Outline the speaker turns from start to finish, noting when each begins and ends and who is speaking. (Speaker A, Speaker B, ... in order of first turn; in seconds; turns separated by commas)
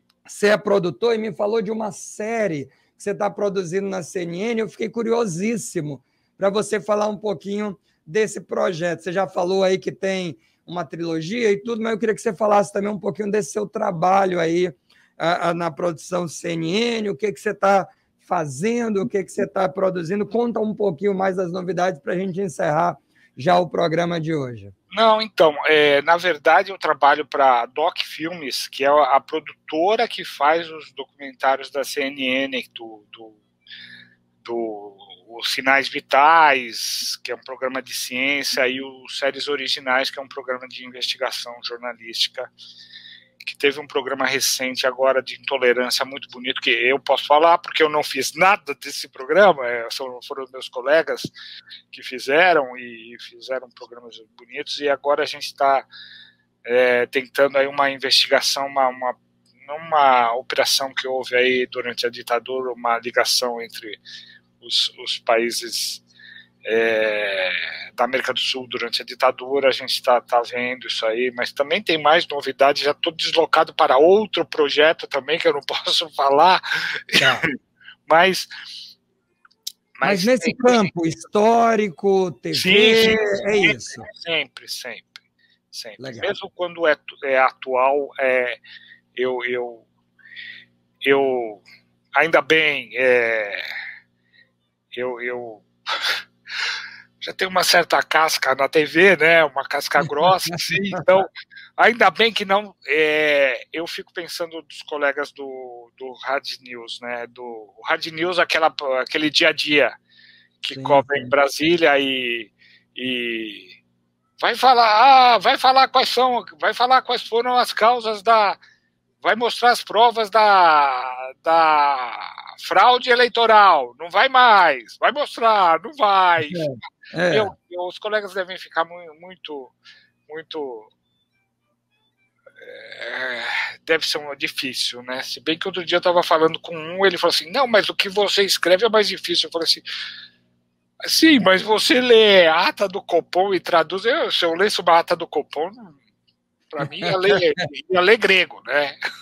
Speaker A: 0.2-24.7, Speaker B: 24.9-33.4, Speaker B: 34.4-42.5, Speaker B: 43.4-51.3, Speaker B: 51.9-55.9, Speaker B: 56.6-64.0, Speaker B: 64.6-66.0, Speaker B: 66.6-77.5, Speaker A: 77.1-77.5, Speaker B: 78.1-78.5, Speaker B: 80.0-80.9, Speaker A: 80.0-84.0, Speaker B: 82.5-85.2, Speaker B: 85.7-88.6, Speaker A: 86.0-86.3, Speaker B: 89.1-89.8, Speaker B: 91.0-91.6, Speaker B: 92.1-93.6, Speaker B: 94.9-96.2, Speaker B: 97.2-109.9, Speaker A: 100.2-101.0, Speaker B: 110.6-113.7, Speaker A: 110.7-111.3, Speaker B: 114.4-118.6, Speaker B: 119.2-126.7, Speaker A: 126.5-127.5, Speaker B: 127.3-129.7, Speaker B: 130.3-130.9, Speaker B: 132.6-139.8, Speaker B: 141.0-146.0, Speaker B: 146.7-148.9, Speaker A: 146.8-147.4